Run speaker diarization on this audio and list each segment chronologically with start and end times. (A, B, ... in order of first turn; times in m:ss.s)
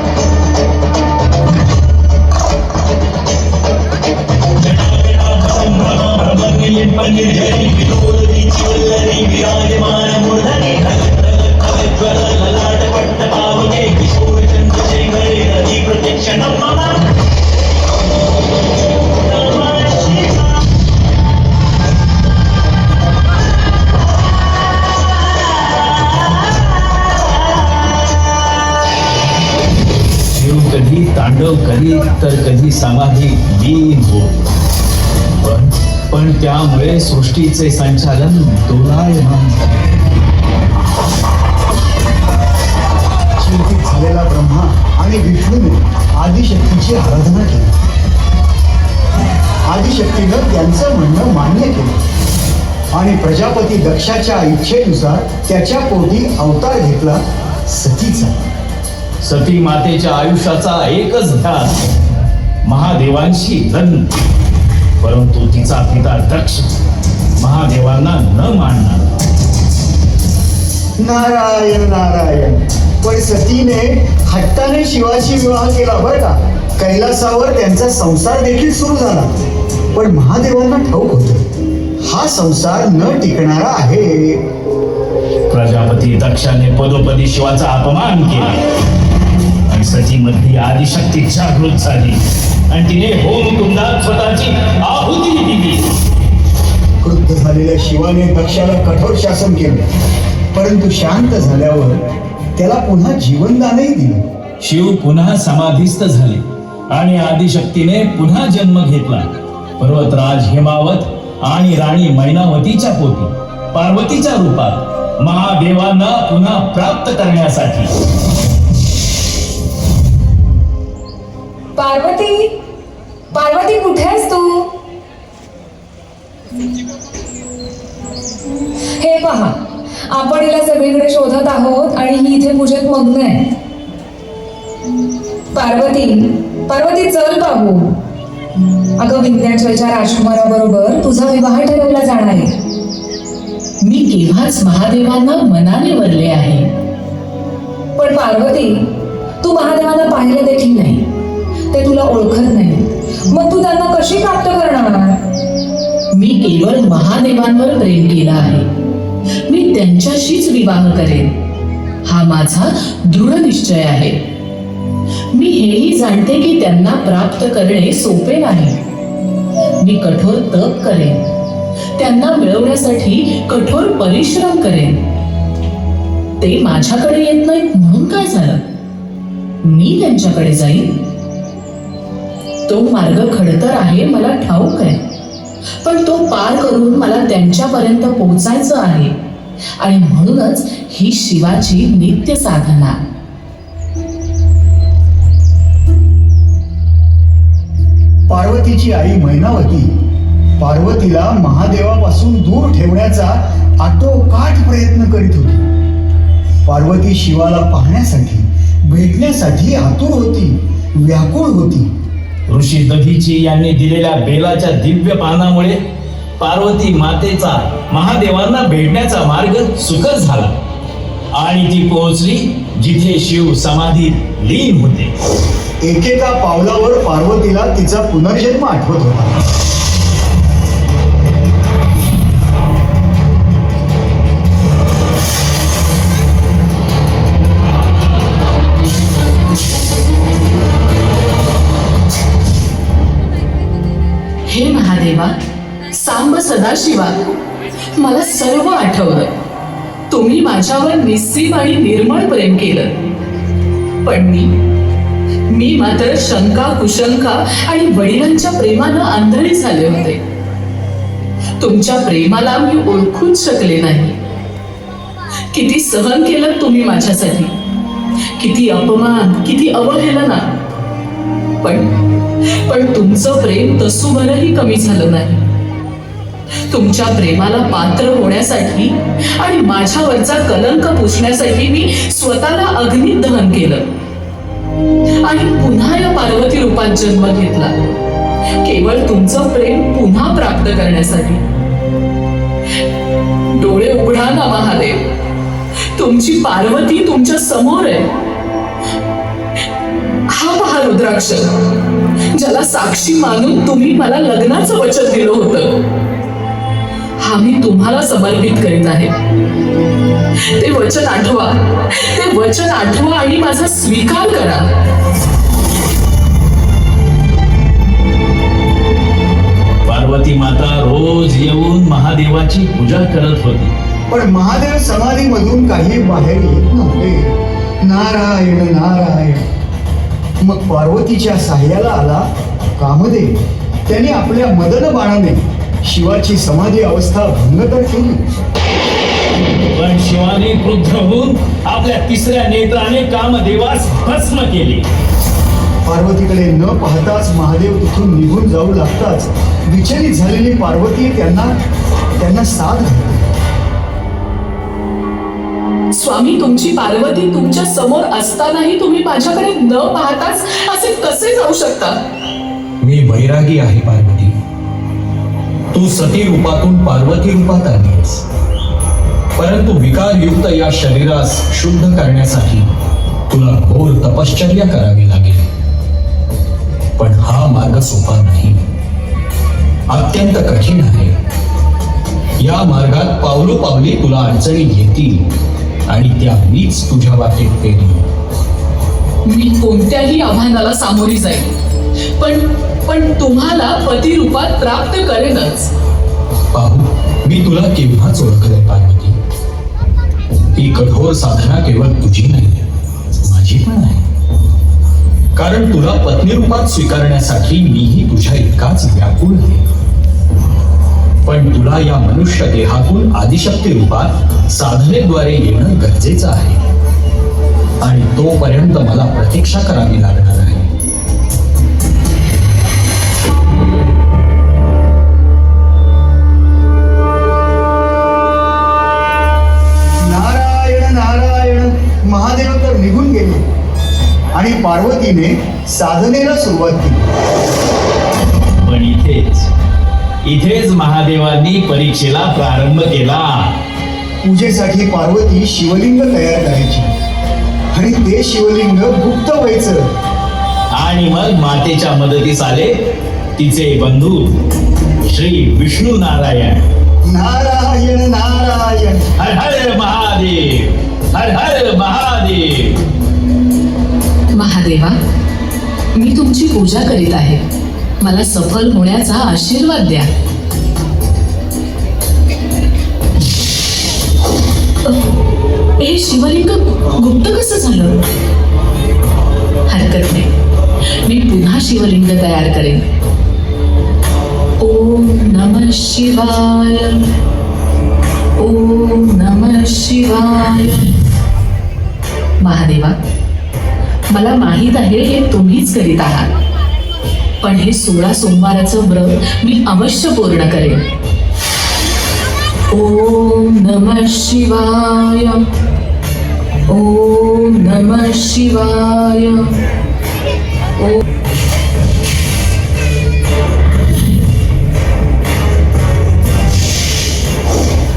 0:04.6-0:17.1 A
0:19.2-0:20.5 A
0:30.3-0:34.3 A
0:35.4-0:39.7 A
0:43.4-0:47.7 B
0:49.7-0:52.0 B
0:52.9-0:58.4 B
0:59.2-1:01.7 A
1:02.6-1:04.1 A
1:05.0-1:06.7 A
1:07.4-1:09.1 A
1:11.0-1:19.3 B
1:19.9-1:21.4 B
1:22.0-1:24.4 B
1:25.5-1:28.6 A
1:29.7-1:35.9 A
1:37.0-1:39.9 B
1:40.5-1:42.0 B
1:42.6-1:44.2 B
1:44.6-1:49.3 A
1:49.8-1:57.9 A
2:01.8-2:02.5 C
2:03.3-2:04.7 C
2:09.0-2:09.5 C
2:10.1-2:13.4 C
2:15.5-2:18.0 C
2:19.0-2:22.5 C
2:23.8-2:26.7 D
2:28.0-2:28.8 C
2:29.4-2:31.0 C
2:31.7-2:35.2 C
2:36.1-2:38.7 D
2:39.5-2:41.3 D
2:42.1-2:44.2 D
2:45.3-2:48.8 D
2:49.8-2:51.3 D
2:52.0-2:55.0 D
2:56.4-2:58.6 D
2:59.6-3:00.9 D
3:02.7-3:05.0 D
3:05.8-3:09.1 D
3:09.8-3:13.0 D
3:18.3-3:19.9 B
3:20.6-3:25.6 B
3:26.7-3:31.9 B
3:32.5-3:35.8 A
3:36.4-3:40.5 A
3:41.4-3:45.1 A
3:45.8-3:49.4 B
4:04.5-4:05.4 D
4:05.9-4:07.2 D
4:08.0-4:09.3 D
4:10.1-4:13.0 D
4:14.0-4:14.5 D
4:15.5-4:20.2 D
4:21.6-4:24.2 D
4:25.5-4:27.5 D
4:28.4-4:30.5 D
4:31.6-4:31.9 D
4:32.4-4:35.4 D
4:36.7-4:43.9 D
4:45.2-4:47.7 D
4:48.6-4:51.4 D
4:53.5-4:55.0 D
4:56.0-4:58.1 D
5:00.3-5:01.6 D
5:02.3-5:05.8 D
5:07.2-5:09.1 D
5:10.4-5:14.7 D
5:19.8-5:23.7 A
5:24.1-5:29.4 B
5:30.4-5:38.2 B
5:39.8-5:44.8 A
5:45.9-5:51.5 B
5:52.2-5:53.3 B
5:55.9-6:02.0 D
6:02.8-6:04.4 E
6:05.7-6:08.2 E
6:09.4-6:12.7 E
6:13.3-6:15.5 E
6:17.0-6:18.6 E
6:19.9-6:21.2 E
6:22.4-6:25.2 E
6:25.9-6:28.1 E
6:29.3-6:31.5 D
6:32.2-6:35.7 D
6:36.5-6:39.2 E
6:40.5-6:42.7 E
6:43.2-6:44.1 E
6:45.4-6:49.6 E
6:51.2-6:56.6 E
6:57.8-7:00.7 E
7:10.0-7:13.4 B
7:14.4-7:17.0 B
7:18.6-7:19.5 A
7:20.2-7:23.5 A
7:24.2-7:26.9 B
7:27.7-7:29.9 B
7:30.8-7:32.7 A
7:33.4-7:34.4 A
7:35.0-7:36.6 A
7:37.1-7:39.0 B
7:39.2-7:42.8 A
7:44.4-7:45.0 D
7:46.0-7:47.4 D
7:48.0-7:50.1 D
7:54.8-7:55.1 D
7:55.8-7:58.0 D
7:59.7-8:00.3 D
8:01.0-8:02.8 D
8:04.6-8:07.0 D
8:08.4-8:10.9 D
8:12.4-8:13.0 D
8:14.1-8:16.3 D
8:17.4-8:20.8 D
8:22.7-8:25.4 D
8:26.7-8:29.5 D